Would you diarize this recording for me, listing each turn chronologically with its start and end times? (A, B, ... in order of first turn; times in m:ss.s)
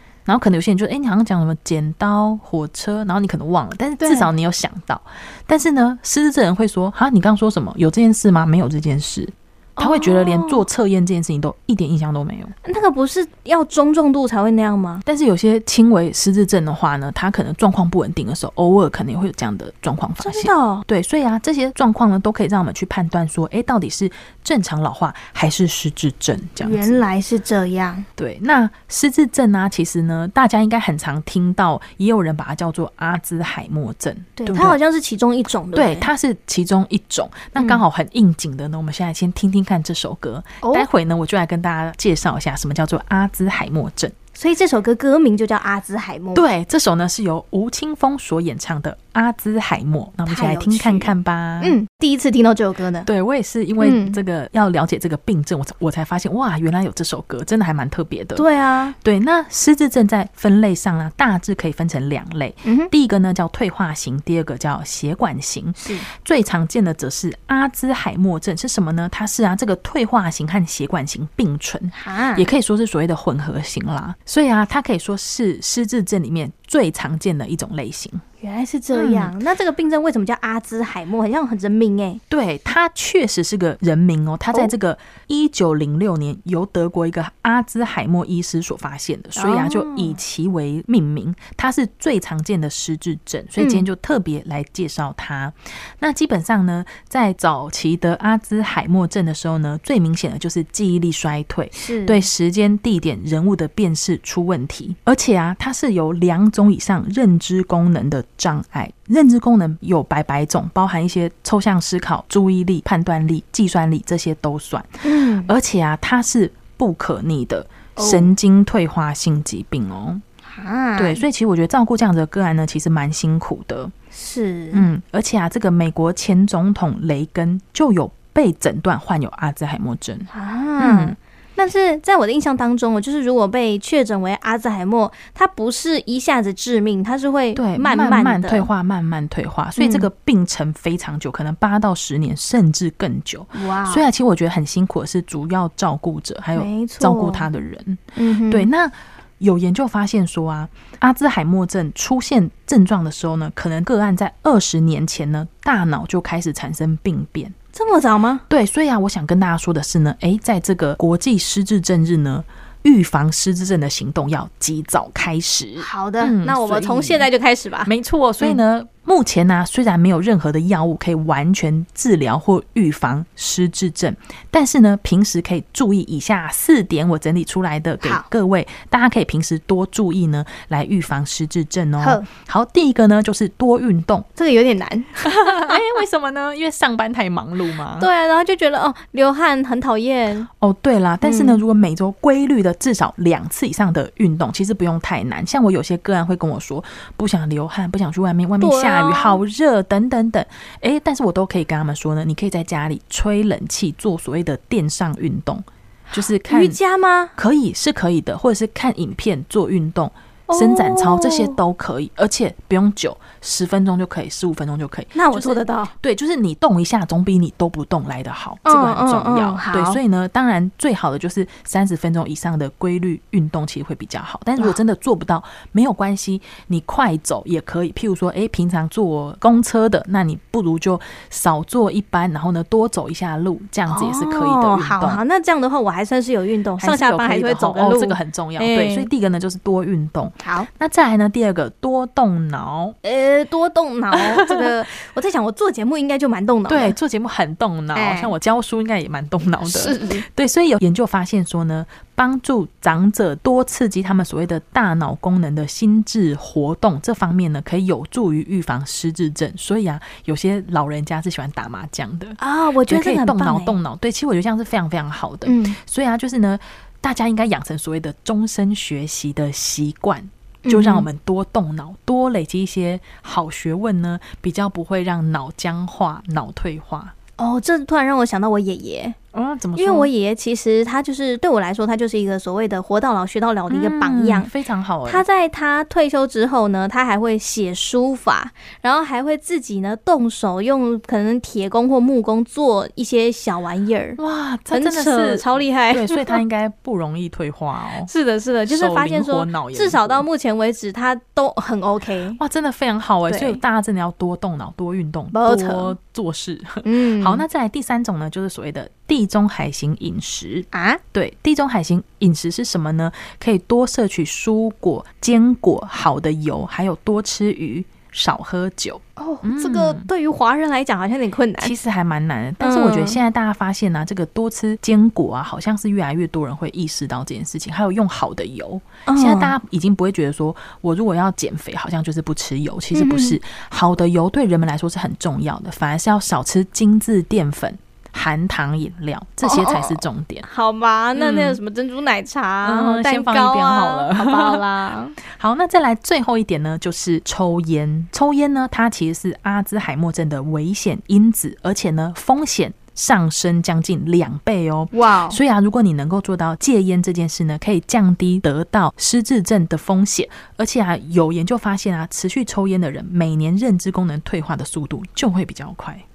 0:00.2-0:12.5 A
0:04.0-0:04.3 B
0:09.8-0:10.7 B
0:12.6-0:15.0 B
0:15.1-0:27.0 A
0:20.2-0:20.8 B
0:26.6-0:28.0 B
0:28.2-0:34.8 A
0:34.4-0:36.1 B
0:35.7-0:44.2 A
0:37.6-0:37.8 B
0:40.6-0:40.9 B
0:44.3-0:46.4 B
0:46.3-0:51.8 A
0:50.3-0:53.1 B
0:53.0-0:58.5 A
0:53.8-0:54.2 B
0:58.4-0:58.9 B
0:59.0-1:18.2 A
1:02.6-1:02.9 B
1:11.9-1:12.5 B
1:18.4-1:22.2 B
1:18.9-1:19.3 A
1:22.3-2:00.2 A
1:29.4-1:30.2 B
1:33.6-1:33.8 B
1:41.7-1:42.3 B
1:55.0-1:55.5 B
1:58.0-1:58.3 B
2:00.5-2:01.2 B
2:01.0-2:03.9 A
2:04.1-2:04.9 B
2:04.7-2:11.2 A
2:10.3-2:18.7 B
2:17.6-2:37.6 A
2:19.8-2:20.1 B
2:23.6-2:24.1 B
2:26.6-2:27.5 B
2:28.1-2:28.7 B
2:37.7-2:38.4 B
2:38.5-2:47.3 A
2:45.8-2:48.6 B
2:47.9-3:04.3 A
3:02.0-3:02.2 B
3:04.4-3:05.8 B
3:05.2-3:08.1 A
3:08.0-3:10.5 B
3:10.6-3:26.8 A
3:11.2-3:11.6 B
3:18.6-3:19.4 B
3:26.1-3:27.4 B
3:27.4-3:55.2 A
3:30.5-3:31.6 B
3:35.1-3:35.9 B
3:38.6-3:40.0 B
3:53.9-3:59.1 B
3:56.8-4:03.0 A
4:00.4-4:00.7 B
4:03.0-4:07.0 B
4:04.1-4:04.7 A
4:06.7-4:37.1 A
4:07.9-4:08.3 B
4:09.6-4:10.2 B
4:22.4-4:23.8 B
4:25.4-4:25.8 B
4:30.6-4:31.1 B
4:37.4-4:39.2 B
4:39.3-4:40.1 A
4:39.8-4:44.5 B
4:43.7-4:45.2 A
4:45.1-4:54.2 B
4:54.2-4:58.1 A
4:54.7-4:56.4 B
4:58.0-5:02.4 B
4:58.7-5:00.2 A
5:02.4-5:20.1 A
5:03.3-5:03.6 B
5:05.3-5:06.0 B
5:06.8-5:07.4 B
5:10.7-5:11.0 B
5:19.2-5:21.7 B
5:21.6-5:40.4 A
5:22.6-5:23.2 B
5:29.1-5:29.6 B
5:32.9-5:33.4 B
5:39.4-5:45.2 B
5:41.2-5:41.6 A
5:42.6-5:44.6 A
5:45.3-6:06.0 A
5:54.9-5:55.4 B